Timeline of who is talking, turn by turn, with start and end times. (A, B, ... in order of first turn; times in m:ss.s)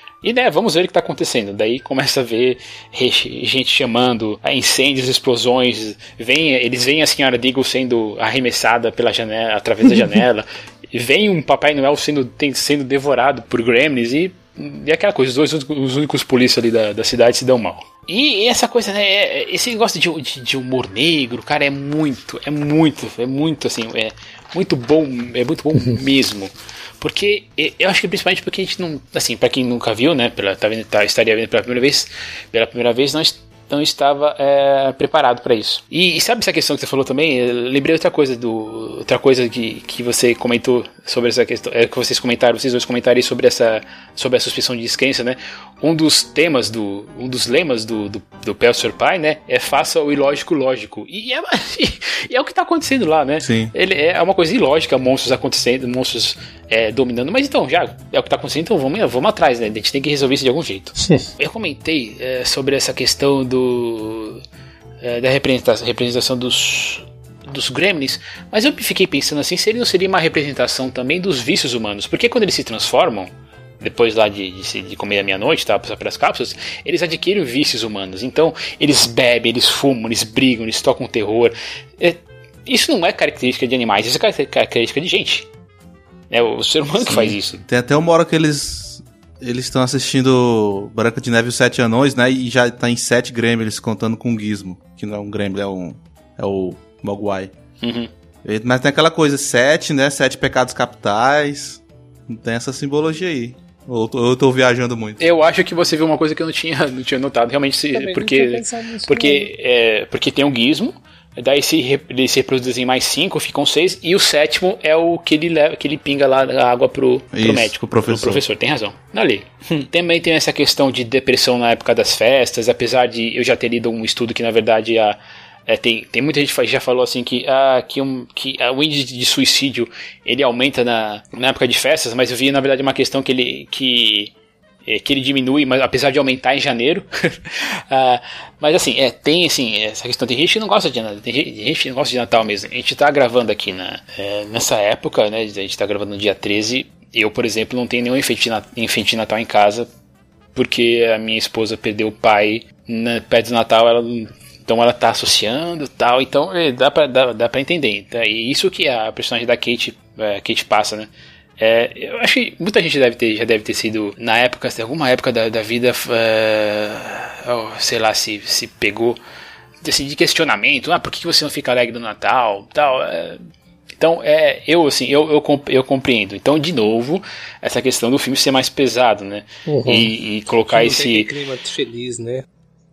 0:00.2-1:04.4 A
0:53.4-0:53.7 B
1:05.0-1:25.5 A
1:26.3-1:27.6 A
1:27.0-1:37.5 B
1:37.8-1:38.1 A
1:38.4-1:45.2 B
1:45.2-2:14.3 A
1:47.9-1:49.5 C
1:57.3-1:58.4 B
2:14.9-2:29.9 A
2:30.6-2:49.2 A
2:49.8-2:53.4 A
2:54.0-3:01.3 A
2:59.7-3:00.1 C
3:00.7-3:02.4 C